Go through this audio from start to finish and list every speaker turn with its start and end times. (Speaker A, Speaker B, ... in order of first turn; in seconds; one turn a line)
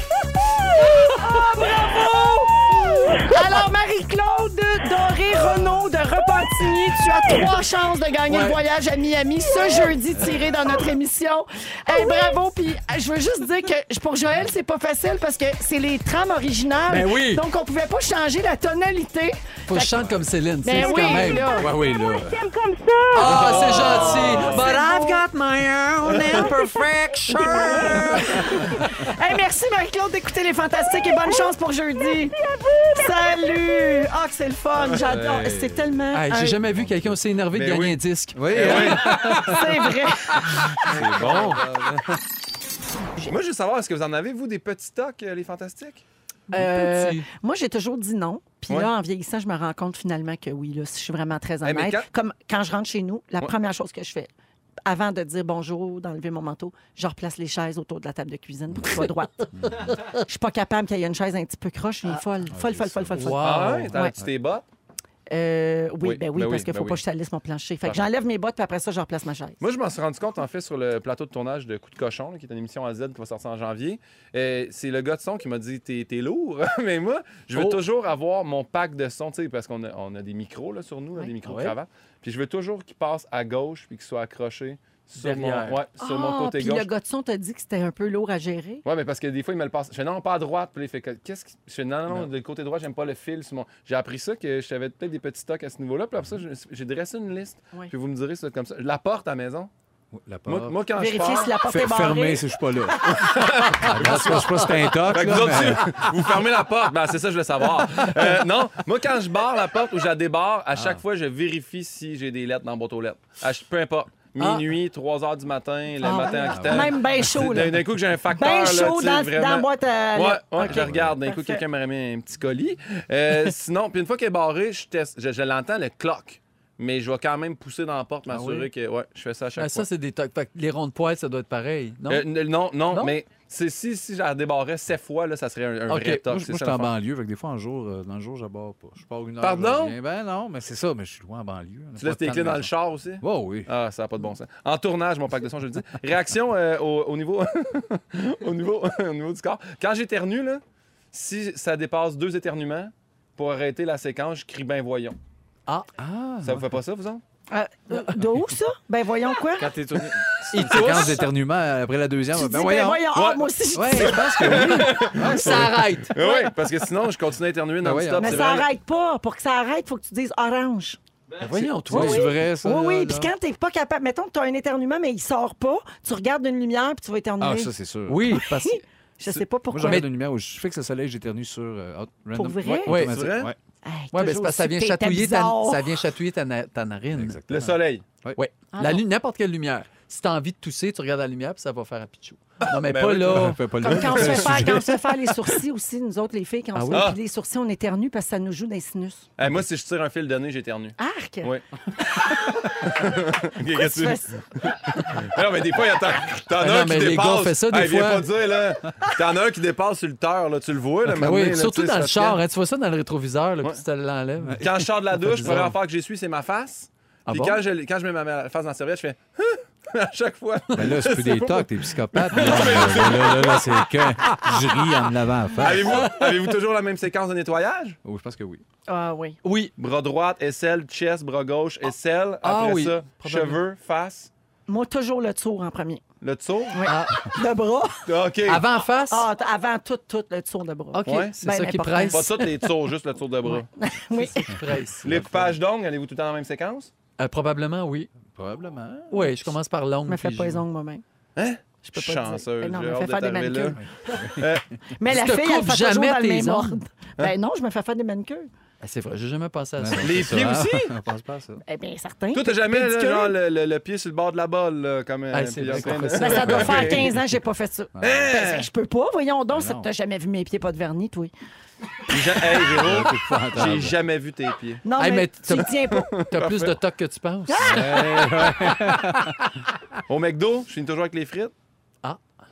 Speaker A: 0.8-20.0
Speaker B: 2.8-3.3
Speaker C: 8.3-8.6
Speaker C: 16.9-17.4
Speaker C: 19.7-21.5
Speaker A: 20.6-21.7
Speaker B: 20.8-24.9
Speaker D: 20.9-22.4
Speaker C: 23.1-28.4
Speaker E: 23.3-24.7
Speaker A: 23.9-25.2
Speaker E: 26.1-26.4
Speaker B: 26.2-28.8
Speaker A: 27.4-32.4
Speaker B: 30.9-31.5
Speaker B: 32.0-34.1
Speaker A: 33.0-36.6
Speaker D: 34.9-37.2
Speaker C: 36.1-39.5
Speaker E: 37.5-39.4
Speaker D: 38.4-39.6
Speaker A: 39.0-40.5
Speaker D: 40.7-42.0
Speaker E: 40.8-42.1
Speaker C: 41.1-41.6
Speaker E: 43.3-46.0
Speaker C: 46.5-47.3
Speaker A: 46.5-54.3
Speaker E: 51.6-52.1
Speaker A: 54.9-63.4
Speaker D: 59.5-60.0
Speaker D: 62.5-63.3
Speaker C: 63.1-63.9
Speaker E: 63.4-64.7
Speaker A: 65.3-69.6
Speaker E: 66.0-67.0
Speaker E: 69.6-86.9
Speaker C: 77.5-77.8
Speaker C: 81.4-81.8
Speaker C: 85.2-85.8
Speaker A: 86.0-88.8
Speaker E: 88.8-99.7
Speaker D: 100.1-100.8
Speaker E: 100.5-101.5
Speaker A: 101.0-102.4
Speaker D: 101.6-106.0
Speaker E: 103.0-129.9
Speaker C: 104.2-105.3
Speaker D: 110.7-111.0
Speaker C: 114.4-114.7
Speaker A: 116.0-121.6
Speaker D: 116.5-117.5
Speaker D: 120.6-121.2
Speaker D: 128.3-128.7
Speaker C: 128.3-128.6
Speaker C: 129.6-132.3
Speaker E: 132.1-136.9
Speaker C: 135.9-136.2
Speaker D: 136.2-143.7
Speaker E: 139.4-139.9
Speaker E: 142.0-155.2
Speaker D: 156.0-156.7
Speaker E: 156.4-157.2
Speaker A: 157.5-159.7
Speaker D: 159.6-163.1
Speaker E: 160.1-160.8
Speaker C: 160.5-161.3
Speaker A: 162.3-164.3
Speaker E: 163.1-168.7
Speaker D: 163.7-165.8
Speaker C: 164.6-166.2
Speaker A: 166.2-166.5
Speaker D: 167.8-168.5
Speaker A: 168.2-171.0
Speaker C: 171.4-172.3
Speaker D: 171.4-173.3
Speaker A: 171.9-177.7
Speaker D: 177.4-178.4
Speaker C: 178.1-178.8
Speaker A: 178.3-180.0
Speaker D: 179.7-183.6
Speaker A: 182.3-183.0
Speaker C: 182.9-183.3
Speaker E: 183.0-183.5
Speaker A: 183.8-185.9
Speaker C: 184.1-187.4
Speaker D: 187.1-188.4
Speaker E: 187.5-188.0
Speaker C: 188.3-193.6
Speaker A: 188.7-189.0
Speaker E: 192.7-194.6
Speaker D: 193.3-195.0
Speaker A: 193.8-199.3
Speaker C: 196.8-197.1
Speaker E: 196.9-197.2
Speaker E: 199.4-212.4
Speaker A: 201.0-201.5
Speaker A: 203.8-204.4
Speaker C: 206.6-208.3
Speaker C: 211.1-214.7
Speaker D: 214.4-215.7
Speaker E: 214.6-223.8
Speaker C: 215.3-215.8
Speaker C: 217.3-217.6
Speaker D: 220.7-226.1
Speaker C: 222.4-223.1
Speaker C: 224.2-224.6
Speaker E: 225.6-228.0
Speaker C: 225.9-226.4
Speaker D: 228.0-228.6
Speaker A: 228.9-229.4
Speaker C: 229.4-229.7
Speaker E: 229.8-234.3
Speaker C: 232.4-233.6
Speaker A: 234.7-236.0
Speaker E: 236.2-236.8
Speaker A: 236.7-238.1
Speaker C: 236.9-237.3
Speaker E: 238.1-238.7
Speaker C: 238.4-239.3
Speaker A: 239.1-242.4
Speaker C: 240.9-242.6
Speaker E: 241.1-241.3
Speaker E: 242.1-243.7
Speaker A: 243.5-244.6
Speaker C: 244.1-245.3
Speaker E: 245.0-246.9
Speaker D: 245.1-245.5
Speaker C: 247.2-248.1
Speaker D: 248.3-249.4
Speaker C: 249.1-250.6
Speaker A: 250.1-251.0
Speaker E: 251.4-253.8
Speaker A: 251.8-253.8
Speaker D: 253.8-254.6
Speaker E: 254.4-254.7
Speaker A: 255.0-258.5
Speaker C: 255.1-256.8
Speaker C: 258.8-260.4
Speaker D: 259.8-261.6
Speaker E: 260.0-260.9
Speaker A: 261.7-263.4
Speaker E: 262.3-267.2
Speaker C: 265.3-267.1
Speaker A: 266.2-271.3
Speaker D: 267.9-268.4
Speaker E: 268.0-268.7
Speaker D: 269.5-269.9
Speaker E: 272.1-274.8
Speaker D: 272.5-274.0
Speaker A: 274.8-276.1
Speaker C: 275.0-279.5
Speaker E: 275.9-276.8
Speaker A: 277.5-278.3
Speaker D: 277.6-279.4
Speaker E: 280.1-281.5